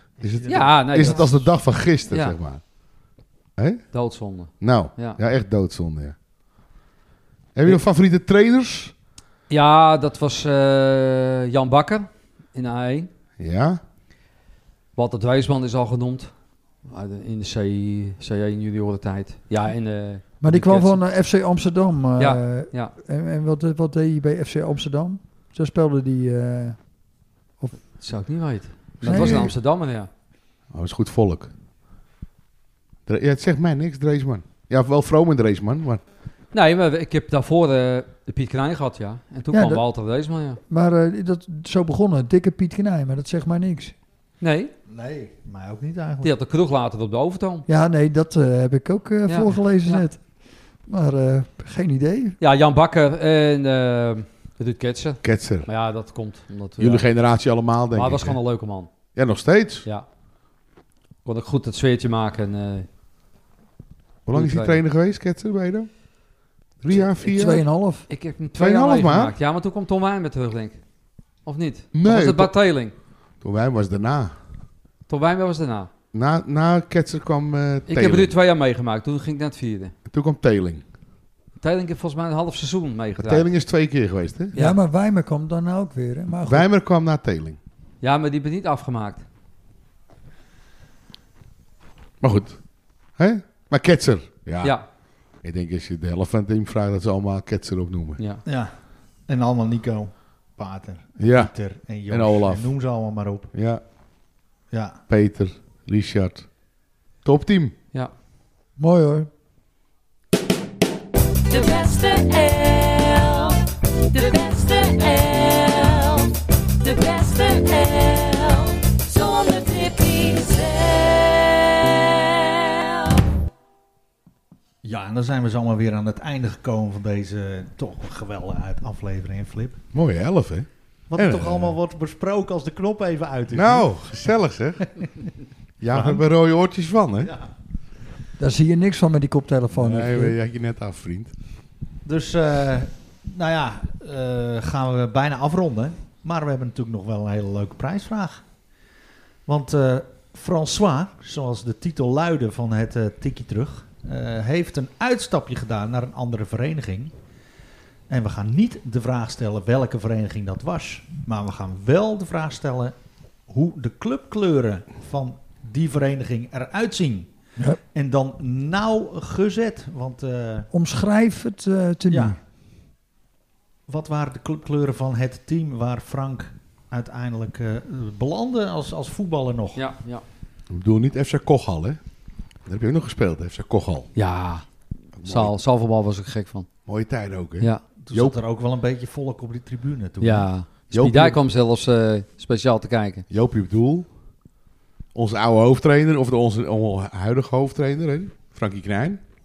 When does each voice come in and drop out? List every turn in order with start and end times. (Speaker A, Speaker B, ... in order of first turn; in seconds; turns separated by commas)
Speaker A: 0.2-2.6, Speaker B: 0.2-1.5, Speaker C: 0.5-1.4, Speaker C: 2.1-2.4, Speaker A: 3.6-3.8, Speaker C: 3.9-5.2, Speaker A: 4.6-6.2, Speaker A: 7.5-8.9, Speaker C: 9.5-13.1, Speaker A: 13.4-13.8, Speaker C: 14.9-16.3, Speaker C: 16.8-21.0, Speaker D: 20.4-26.8, Speaker C: 22.2-22.9, Speaker C: 28.0-30.1, Speaker D: 29.0-29.5, Speaker A: 29.0-29.5, Speaker A: 30.7-31.5, Speaker A: 33.1-36.0, Speaker C: 36.5-40.6, Speaker D: 39.5-39.8, Speaker D: 40.7-43.9, Speaker C: 44.4-44.7, Speaker B: 44.9-46.3, Speaker C: 46.2-47.6, Speaker D: 47.7-50.2, Speaker C: 49.3-50.0, Speaker D: 50.8-52.4, Speaker C: 52.4-57.0, Speaker A: 55.2-55.7, Speaker A: 56.8-58.4, Speaker C: 57.9-58.9, Speaker A: 59.1-59.9, Speaker C: 61.2-62.9, Speaker A: 64.2-65.9, Speaker C: 64.3-64.8, Speaker A: 66.8-67.6, Speaker D: 67.2-68.1, Speaker C: 68.1-70.8, Speaker A: 68.6-69.3, Speaker C: 71.4-72.9, Speaker A: 71.9-72.5, Speaker A: 73.4-74.3, Speaker C: 75.1-75.9, Speaker A: 76.1-78.3, Speaker C: 77.9-79.9, Speaker A: 80.1-80.8, Speaker C: 81.6-83.5, Speaker A: 83.2-84.5, Speaker C: 84.5-84.8, Speaker D: 84.5-86.7, Speaker A: 86.5-87.6, Speaker C: 88.0-89.2, Speaker A: 92.2-92.6, Speaker A: 93.2-94.8, Speaker A: 95.4-98.2, Speaker C: 98.2-98.4, Speaker B: 98.5-98.7, Speaker B: 99.3-103.5, Speaker A: 101.2-101.5, Speaker A: 102.1-102.7, Speaker A: 103.5-103.8, Speaker B: 104.7-105.0, Speaker A: 105.1-106.5, Speaker A: 107.2-107.7, Speaker D: 108.8-109.3, Speaker E: 111.5-123.2, Speaker B: 124.8-129.8, Speaker A: 129.9-131.8, Speaker B: 131.1-133.9, Speaker A: 133.5-135.0, Speaker A: 135.8-137.3, Speaker B: 135.9-136.2, Speaker B: 137.2-137.5, Speaker D: 138.4-140.4, Speaker A: 139.7-141.3, Speaker B: 142.0-148.4, Speaker B: 149.4-157.1, Speaker B: 158.1-162.9, Speaker B: 163.5-167.3, Speaker B: 167.9-170.7, Speaker D: 170.7-172.4, Speaker B: 172.1-172.4, Speaker B: 173.9-179.8, Speaker C: 179.7-180.2, Speaker A: 180.7-182.0, Speaker A: 182.7-184.1, Speaker C: 184.1-184.6, Speaker A: 185.2-185.5, Speaker C: 185.2-186.7, Speaker A: 186.8-188.4, Speaker B: 188.0-190.5, Speaker C: 190.2-193.2, Speaker A: 190.9-191.4, Speaker A: 193.3-194.1, Speaker A: 195.1-199.2